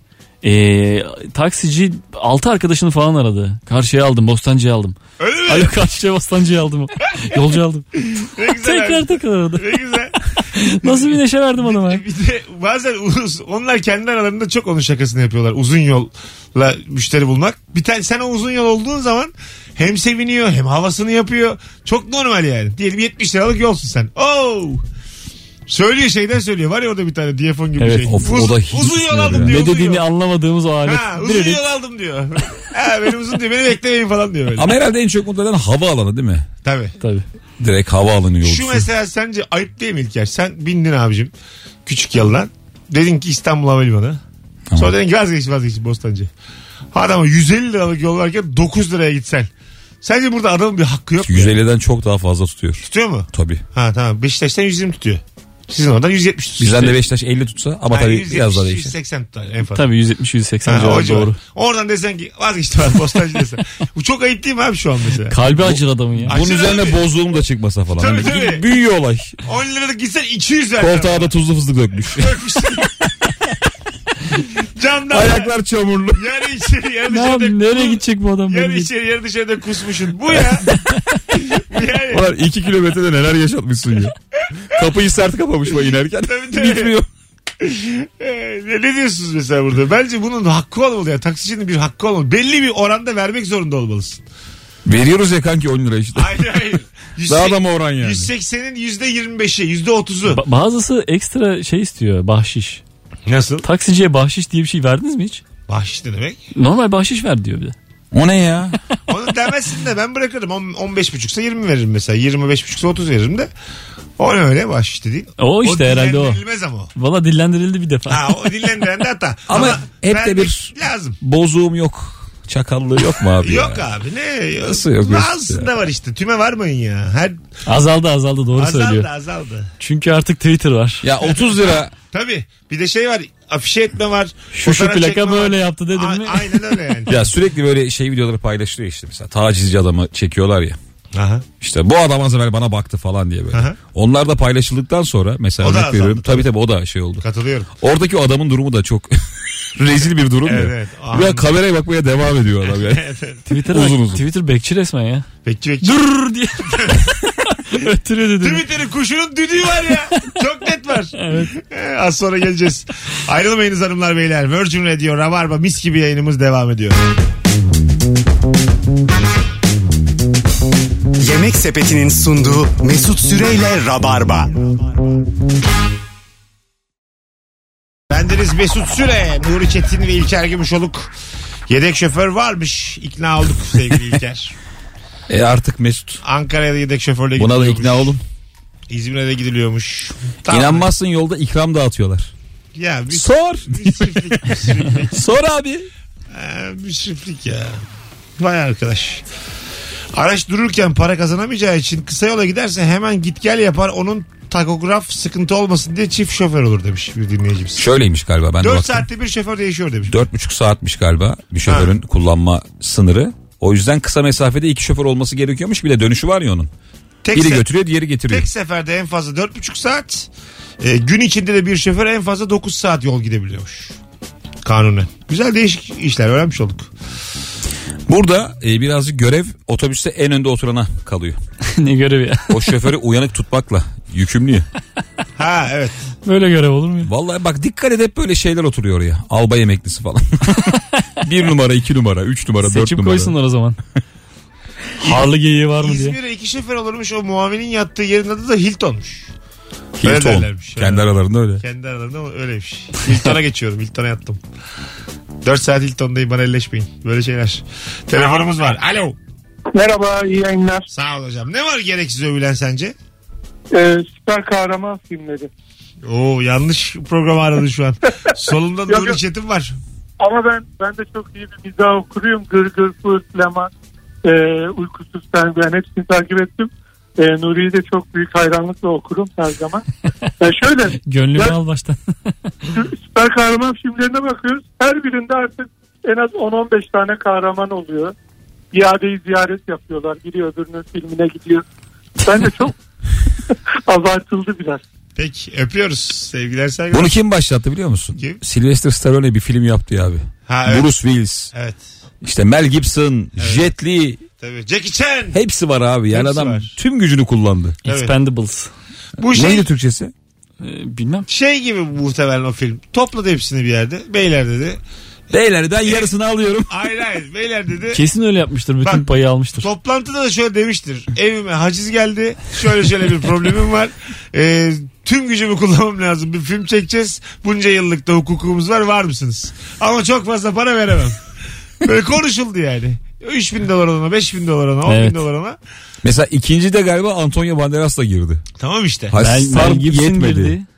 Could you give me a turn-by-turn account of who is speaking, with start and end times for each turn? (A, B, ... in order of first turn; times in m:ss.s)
0:00.4-0:07.9 A
0:05.2-0:05.8 B
0:08.0-0:24.8 B
0:08.4-0:09.7 A
0:10.4-0:12.0 A
0:25.7-0:30.0 B
0:27.8-0:28.1 A
0:28.1-0:29.6 C
0:29.4-0:31.6 A
0:30.8-0:34.7 B
0:34.6-0:36.5 C
0:36.6-0:36.9 B
0:37.6-0:38.9 C
0:38.4-0:41.3 B
0:41.8-0:44.2 B
0:44.8-0:46.3 B
0:46.9-0:49.5 B
0:50.0-0:51.5 B
0:51.2-0:53.6 C
0:52.8-0:57.0 B
0:56.6-0:58.9 C
0:57.9-0:59.8 B
0:59.7-1:01.4 A
1:00.6-1:05.4 B
1:05.3-1:06.3 A
1:05.6-1:09.4 C
1:06.3-1:07.0 B
1:08.0-1:08.6 B
1:09.4-1:11.3 B
1:10.8-1:12.4 C
1:12.0-1:12.9 B
1:14.6-1:15.5 B
1:15.1-1:16.2 C
1:16.1-1:20.7 B
1:17.1-1:18.9 A
1:21.3-1:22.3 B
1:22.1-1:24.1 C
1:24.7-1:27.1 C
1:26.2-1:27.0 B
1:27.6-1:34.2 B
1:34.8-1:36.6 C
1:36.1-1:40.4 B
1:37.2-1:38.3 C
1:40.3-1:42.8 A
1:43.3-1:43.6 B
1:43.6-1:45.4 A
1:45.7-1:46.4 B
1:46.5-1:47.7 A
1:48.1-1:48.8 C
1:49.1-1:53.5 B
1:54.2-1:56.9 B
1:55.4-1:56.4 A
1:56.9-1:58.4 A
1:58.1-2:01.2 B
1:59.5-2:03.8 C
2:03.4-2:07.4 B
2:04.6-2:05.7 C
2:07.6-2:09.1 A
2:08.6-2:09.7 B
2:09.8-2:11.0 A
2:11.0-2:11.9 C
2:11.2-2:11.5 B
2:12.1-2:17.2 B
2:14.5-2:16.6 A
2:17.1-2:20.8 C
2:21.1-2:21.4 B
2:21.6-2:27.2 C
2:23.5-2:23.8 B
2:25.6-2:26.5 B
2:27.2-2:27.7 B
2:27.8-2:29.2 C
2:29.7-2:33.0 C
2:30.4-2:31.5 B
2:32.7-2:33.4 B
2:33.5-2:35.2 A
2:33.7-2:34.2 C
2:35.4-2:36.1 B
2:35.8-2:38.6 A
2:36.7-2:37.1 B
2:38.4-2:47.0 B
2:41.2-2:41.5 A
2:51.2-2:54.9 D
2:58.1-3:01.1 B
3:01.7-3:04.5 B
3:05.3-3:06.2 C
3:06.2-3:08.2 B
3:07.4-3:08.2 C
3:08.9-3:10.9 B
3:10.5-3:12.3 C
3:12.7-3:15.2 B
3:13.1-3:15.9 C
3:16.3-3:17.8 B
3:18.4-3:19.2 B
3:20.1-3:27.8 B
3:27.8-3:29.1 C
3:28.6-3:30.2 B
3:30.1-3:36.7 C
3:31.7-3:31.9 B
3:37.2-3:37.7 B
3:37.3-3:38.5 C
3:38.3-3:40.3 B
3:40.8-3:44.0 B
3:44.6-3:46.9 B
3:48.1-3:51.4 C
3:51.6-3:52.5 A
3:52.5-3:54.7 C
3:55.4-3:56.0 B
3:56.2-3:57.1 A
3:57.0-4:03.3 C
4:02.6-4:03.8 A
4:05.0-4:06.2 A
4:05.0-4:09.3 B
4:10.0-4:11.6 C
4:10.0-4:14.4 B
4:15.4-4:19.2 B
4:19.7-4:20.9 E
4:20.9-4:22.9 B
4:23.7-4:25.5 E
4:26.0-4:29.8 B
4:28.9-4:29.2 E
4:30.2-4:33.7 E
4:34.2-4:39.8 E
4:40.4-4:41.6 E
4:41.0-4:42.3 A
4:42.7-4:48.1 E
4:48.7-4:51.6 E
4:52.2-4:52.8 E
4:53.5-4:54.8 E
4:55.2-4:57.2 B
4:56.9-5:01.5 C
5:00.5-5:00.9 B
5:01.5-5:01.8 B
5:02.2-5:04.2 C
5:03.4-5:03.7 B
5:04.4-5:05.4 B
5:05.3-5:07.8 C
5:06.1-5:06.7 B
5:07.8-5:08.7 A
5:07.8-5:08.1 B
5:09.2-5:09.7 B
5:09.2-5:10.1 C
5:10.6-5:11.3 A
5:11.3-5:14.8 B
5:15.3-5:16.7 C
5:15.8-5:16.1 B
5:16.7-5:18.0 B
5:17.9-5:19.7 A
5:19.6-5:31.2 B
5:31.8-5:35.6 B
5:34.8-5:35.2 A
5:36.0-5:38.4 C
5:38.6-5:39.2 B
5:39.1-5:40.6 C
5:39.2-5:40.7 A